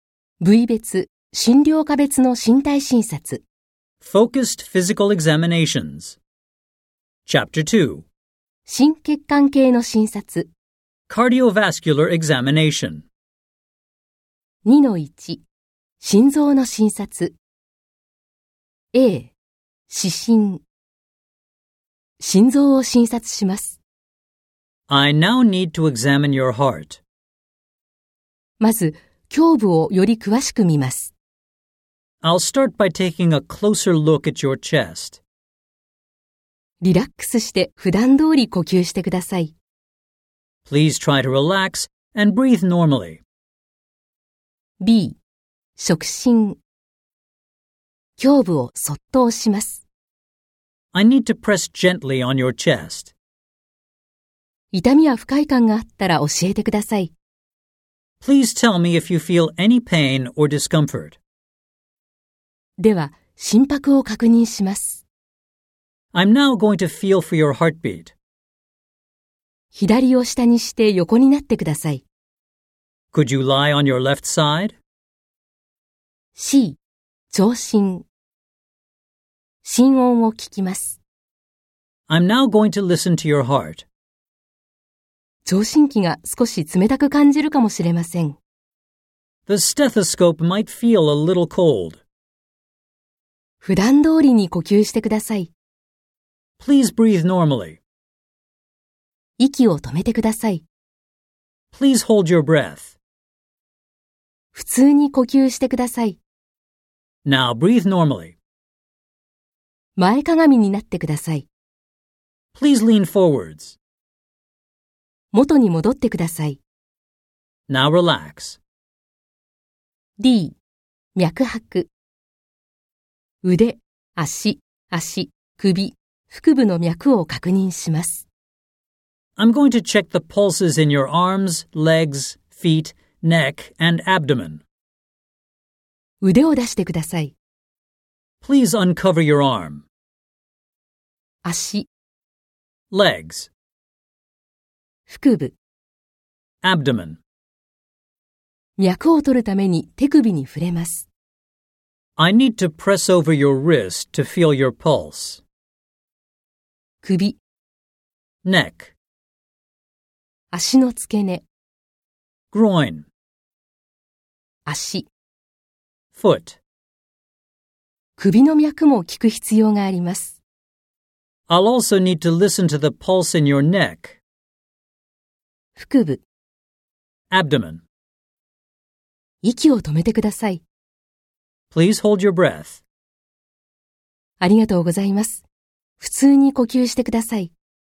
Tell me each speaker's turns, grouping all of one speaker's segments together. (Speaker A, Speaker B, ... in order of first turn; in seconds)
Speaker A: 0.4-3.4, 8.7-10.5, 14.6-15.4, 16.0-17.4, 18.9-19.3, 19.9-20.6, 22.2-23.8, 28.6-31.1, 36.8-39.5, 44.8-45.2, 45.8-46.6, 48.2-49.8, 54.7-57.1, 62.8-65.0, 69.7-72.0, 76.3-76.8, 77.3-78.1, 79.6-81.0, 85.5-88.4, 93.6-95.5, 99.4-100.7, 104.5-106.2, 110.0-111.5, 115.3-116.6, 120.2-120.6, 121.2-121.9, 123.4-128.3, 136.2-137.3, 141.4-141.9, 145.1-145.5, 148.8-151.1, 157.0-157.4, 160.5-161.4, 164.7-165.1, 168.2-170.4, 175.8-176.2, 179.4-180.6, 184.4-185.4, 186.0-187.5
Speaker B: 4.0-6.2, 7.3-8.1, 11.1-13.1, 24.9-27.0, 32.2-35.2, 40.7-43.2, 50.9-53.1, 58.2-61.2, 66.1-68.1, 73.1-74.8, 82.1-83.8, 89.5-92.0, 96.6-97.8, 101.7-102.7, 107.2-108.3, 112.5-113.7, 117.7-118.6, 129.4-134.6, 138.4-139.8, 142.9-143.5, 146.6-147.2, 152.2-155.4, 158.4-158.7, 162.5-163.1, 166.1-166.6, 171.5-174.1, 177.3-177.8, 181.7-182.8